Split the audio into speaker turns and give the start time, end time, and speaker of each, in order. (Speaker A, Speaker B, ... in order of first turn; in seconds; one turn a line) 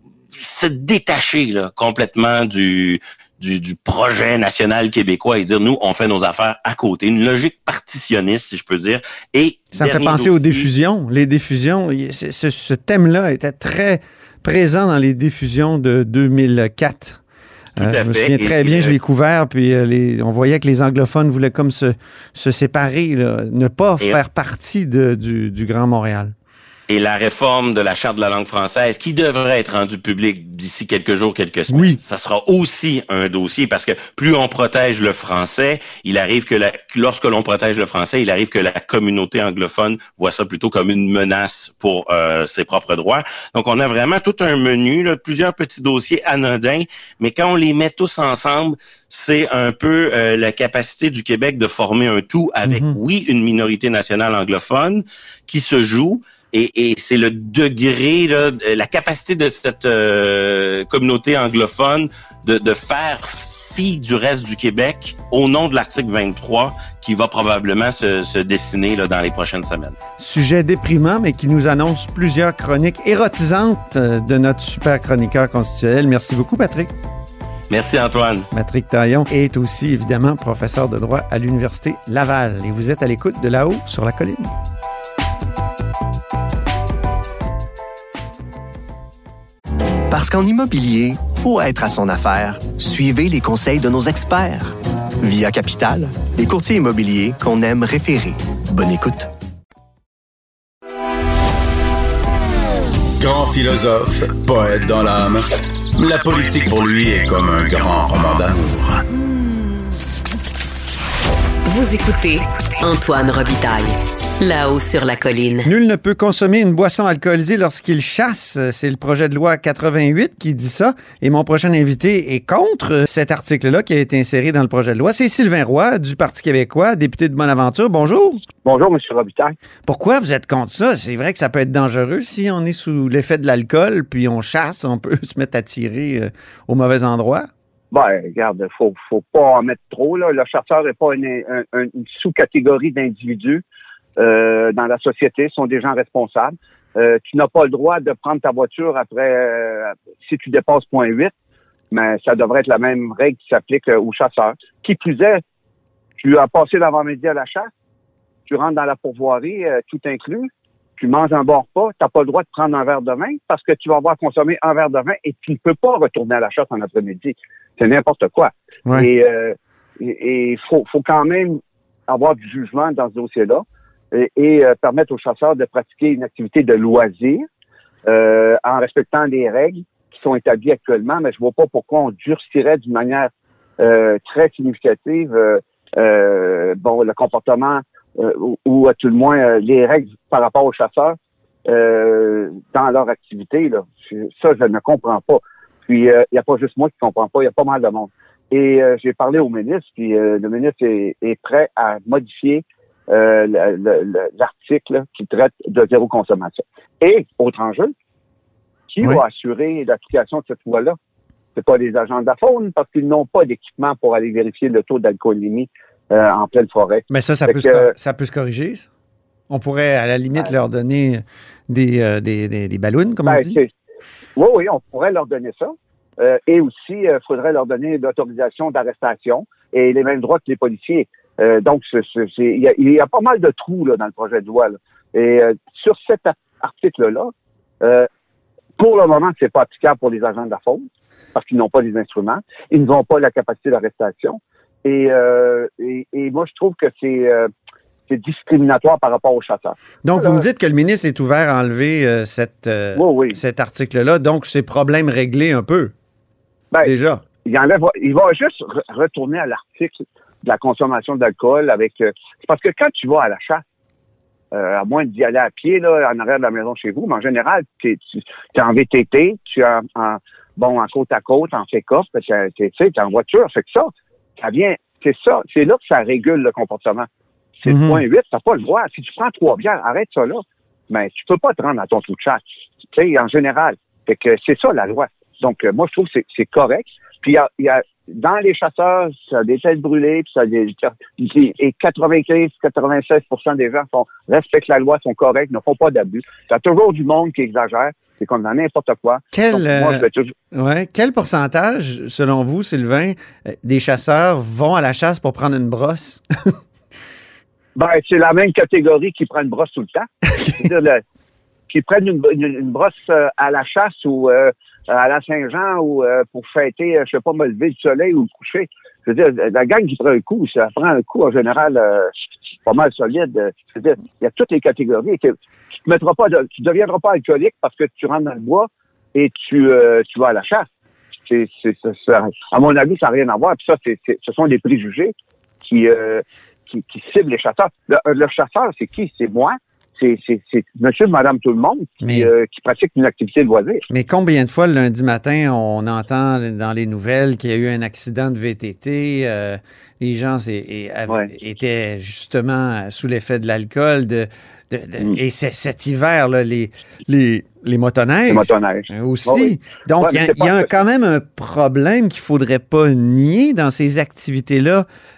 Speaker A: 0.3-10.7
Speaker B: 9.7-17.2
Speaker A: 17.8-19.0
Speaker B: 17.8-26.3
Speaker A: 26.9-70.0
Speaker B: 31.7-32.0
Speaker B: 52.7-53.0
Speaker B: 70.2-76.9
Speaker A: 77.7-78.5
Speaker B: 78.5-84.5
Speaker C: 90.1-99.3
Speaker D: 103.2-109.0
Speaker E: 111.7-115.7
Speaker B: 115.6-128.4
Speaker F: 128.7-129.6
Speaker B: 129.9-137.5
Speaker F: 137.9-143.6
Speaker F: 144.2-151.3
Speaker F: 151.9-155.4
Speaker F: 156.2-157.7
Speaker F: 158.5-177.5
Speaker F: 178.1-207.9
Speaker F: 208.9-211.0
Speaker F: 211.6-217.9
Speaker B: 217.1-218.9
Speaker B: 219.5-223.6
Speaker F: 223.3-223.7
Speaker F: 224.4-238.1
Speaker F: 238.8-247.5
Speaker F: 248.1-250.4
Speaker B: 250.0-255.9
Speaker F: 252.9-253.4
Speaker B: 256.8-257.2
Speaker F: 257.4-263.6
Speaker F: 264.5-277.1
Speaker F: 277.6-282.4
Speaker B: 277.7-278.0
Speaker F: 282.9-300.3
Speaker B: 299.3-306.5
Speaker F: 307.8-311.0
Speaker F: 311.7-322.1
Speaker F: 322.7-330.7
Speaker F: 331.3-343.8
Speaker B: 342.0-342.3
Speaker B: 343.9-364.9
Speaker F: 358.3-360.7